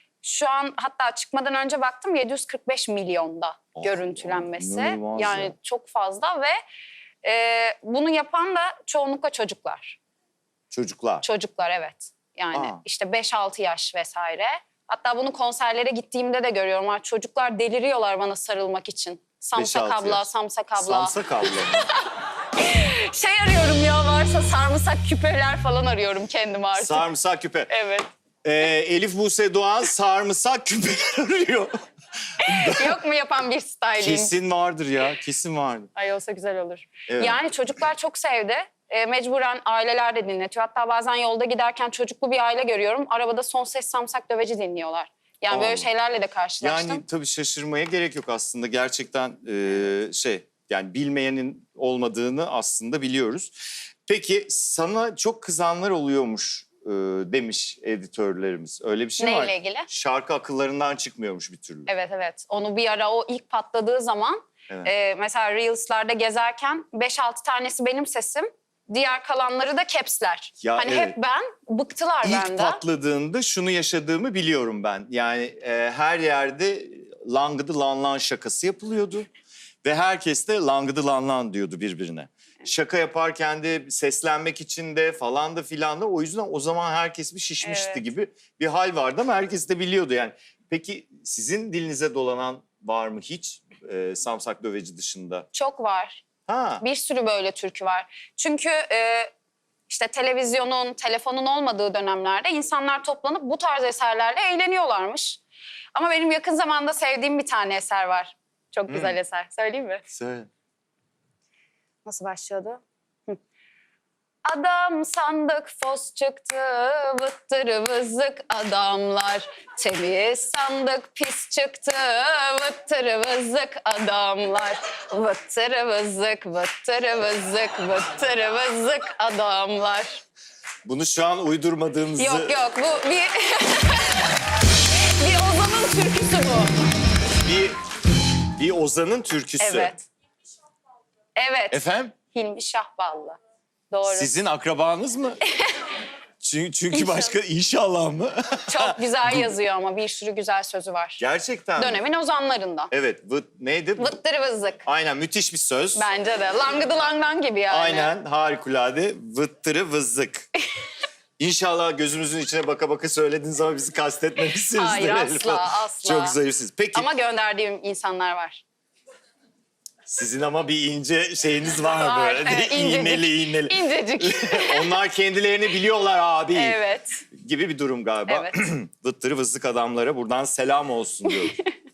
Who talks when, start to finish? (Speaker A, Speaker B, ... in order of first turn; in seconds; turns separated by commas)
Speaker A: 0.2-6.6, Speaker B: 3.8-5.5, Speaker A: 7.2-10.0, Speaker B: 10.7-11.3, Speaker A: 11.2-21.1, Speaker B: 12.5-12.8, Speaker B: 19.6-21.8, Speaker A: 22.6-27.0, Speaker B: 26.8-27.7, Speaker A: 27.7-28.1, Speaker B: 28.4-31.8, Speaker B: 32.3-33.0, Speaker A: 32.6-34.3, Speaker B: 34.0-35.9, Speaker A: 36.0-47.0, Speaker B: 37.1-37.5, Speaker B: 45.5-45.9, Speaker B: 46.6-61.9, Speaker A: 59.2-59.9, Speaker A: 61.9-72.8, Speaker B: 70.6-71.2, Speaker B: 72.2-79.3, Speaker B: 79.8-95.5, Speaker A: 87.6-88.0, Speaker A: 95.5-96.2, Speaker B: 96.5-96.8, Speaker A: 96.8-99.3, Speaker A: 99.9-105.4, Speaker A: 105.9-110.0, Speaker B: 108.9-109.2, Speaker B: 110.1-110.5, Speaker A: 112.0-113.4, Speaker A: 114.5-130.2, Speaker B: 130.8-132.6, Speaker A: 132.2-134.2, Speaker A: 135.0-136.7, Speaker B: 137.4-137.8, Speaker B: 138.6-139.9, Speaker A: 139.6-140.1, Speaker A: 141.4-143.4, Speaker B: 141.7-142.1, Speaker A: 143.9-144.3, Speaker B: 144.1-145.4, Speaker B: 146.4-149.5, Speaker A: 146.9-147.3, Speaker A: 148.7-151.2, Speaker B: 151.2-152.0, Speaker A: 151.8-152.9, Speaker B: 152.9-154.2, Speaker A: 154.0-154.8, Speaker B: 154.8-156.1, Speaker A: 156.0-158.1, Speaker B: 157.7-160.5, Speaker B: 161.4-167.1, Speaker A: 164.7-166.4, Speaker A: 166.9-168.6, Speaker B: 170.1-176.8, Speaker A: 171.9-174.9, Speaker A: 176.6-177.2, Speaker B: 177.4-181.6, Speaker A: 178.3-178.6